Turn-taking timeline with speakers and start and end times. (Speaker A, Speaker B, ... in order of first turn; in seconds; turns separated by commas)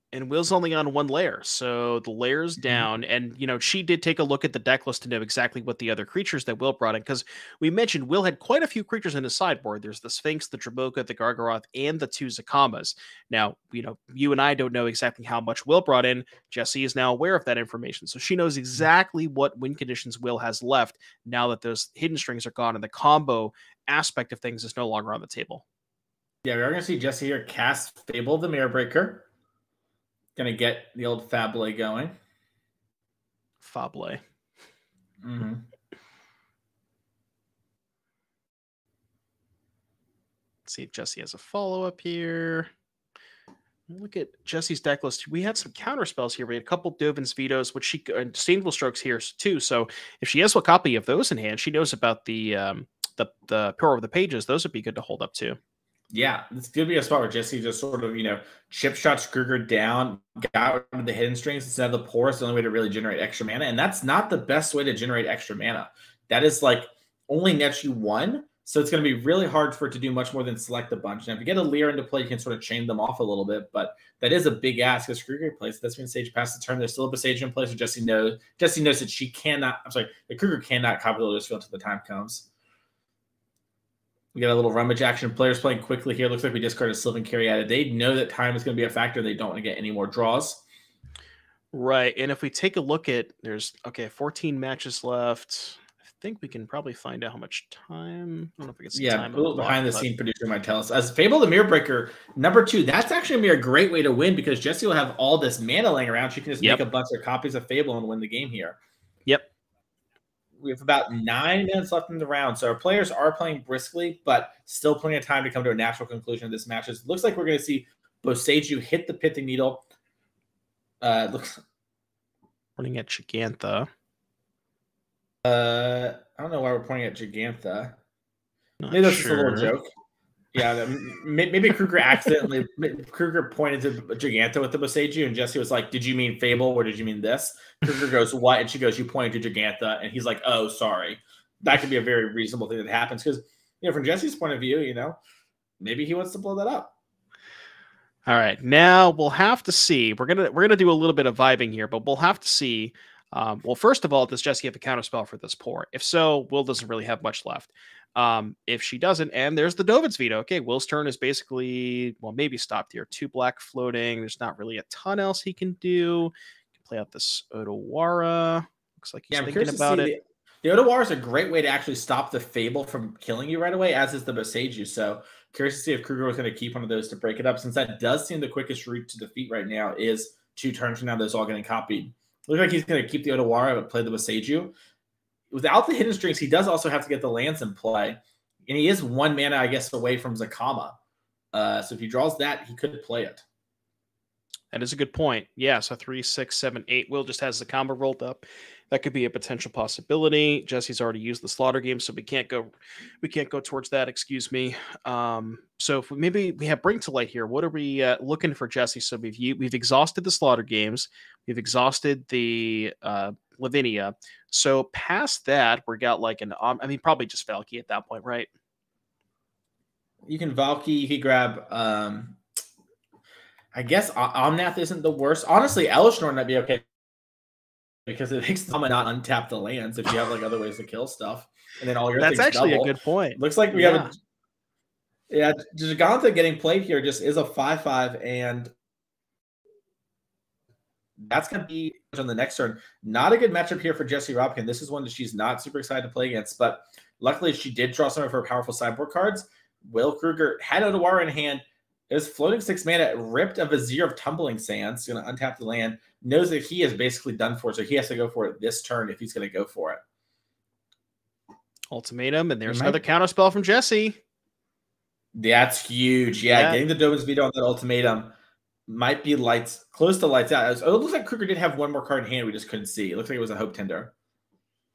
Speaker A: 0.1-25.6, Speaker B: 2.6-2.9, Speaker B: 26.4-29.3, Speaker B: 30.4-32.1, Speaker A: 33.6-34.2, Speaker B: 35.2-35.7, Speaker A: 40.7-42.7, Speaker A: 43.9-55.6, Speaker B: 56.1-82.5, Speaker B: 84.3-90.6, Speaker A: 91.7-100.1, Speaker B: 98.9-108.8, Speaker B: 110.6-119.8, Speaker B: 121.0-121.6, Speaker A: 122.8-123.9, Speaker B: 125.4-128.0, Speaker A: 128.8-129.7, Speaker B: 128.9-129.9, Speaker B: 130.5-145.2, Speaker B: 145.8-146.9, Speaker A: 148.3-166.3, Speaker A: 166.8-170.1, Speaker B: 169.3-184.8, Speaker B: 185.5-191.0, Speaker B: 191.5-193.4, Speaker A: 194.7-202.7, Speaker A: 203.2-218.5, Speaker B: 220.3-222.4, Speaker B: 223.7-226.8, Speaker B: 228.1-234.1, Speaker A: 232.2-234.1, Speaker B: 235.3-238.7, Speaker B: 241.2-260.0, Speaker A: 261.9-264.2, Speaker B: 262.7-263.0, Speaker B: 265.3-268.4, Speaker A: 266.5-266.8, Speaker B: 268.9-274.1